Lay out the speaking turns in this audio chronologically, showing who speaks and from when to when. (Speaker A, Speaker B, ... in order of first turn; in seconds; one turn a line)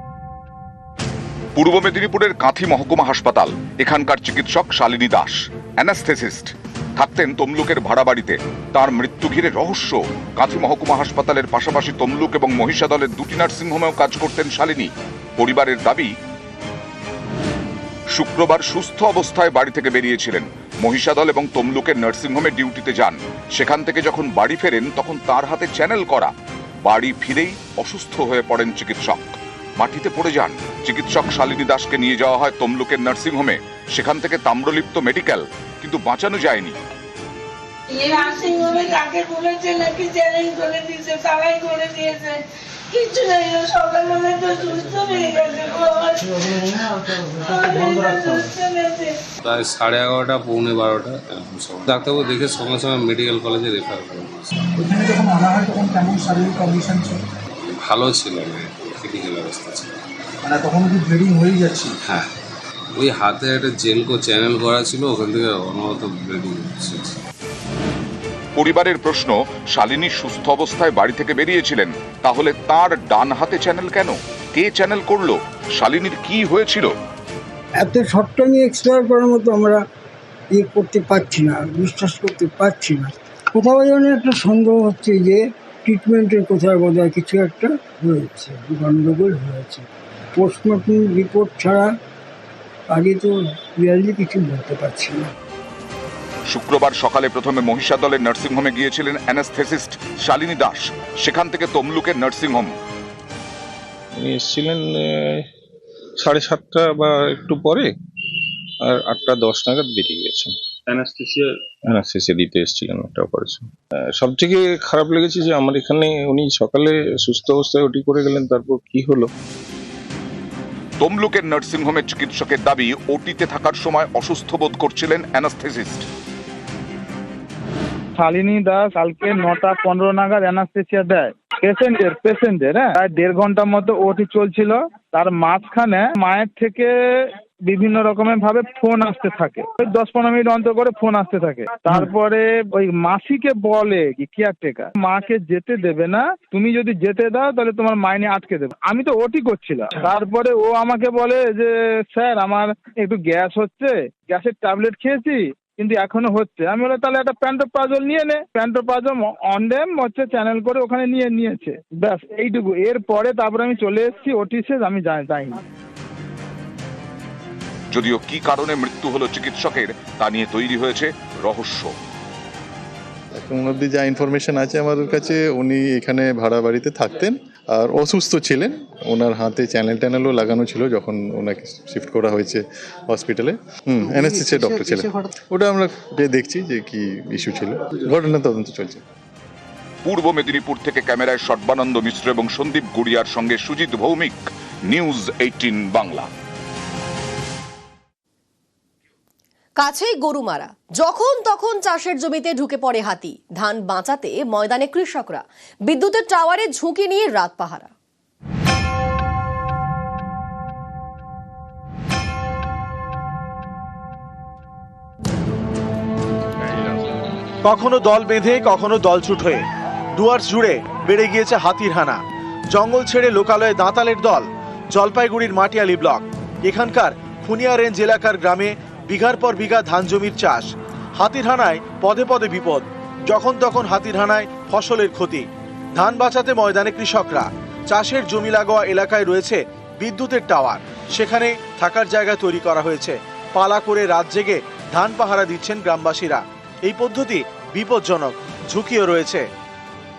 Speaker A: 1.6-16.1
Speaker A: 18.1-26.3
Speaker A: 26.9-36.8
Speaker B: 37.9-49.1
Speaker C: 49.4-54.5
Speaker D: 54.8-57.2
Speaker C: 57.8-59.9
Speaker D: 60.5-61.9
Speaker C: 63.0-67.2
Speaker A: 68.6-76.9
Speaker E: 77.8-79.8
Speaker E: 80.6-89.8
Speaker E: 90.4-91.9
Speaker E: 92.9-95.3
Speaker A: 96.5-102.7
Speaker C: 104.2-105.0
Speaker C: 106.3-107.9
Speaker C: 108.9-110.5
Speaker C: 111.9-113.6
Speaker C: 114.2-119.3
Speaker A: 121.0-126.0
Speaker F: 128.2-136.9
Speaker F: 137.7-165.6
Speaker A: 167.9-171.9
Speaker G: 173.3-189.0
Speaker A: 190.1-196.3
Speaker H: 199.8-207.9
Speaker I: 217.6-219.6
Speaker I: 220.2-222.2
Speaker I: 222.7-235.4
Speaker I: 236.0-249.4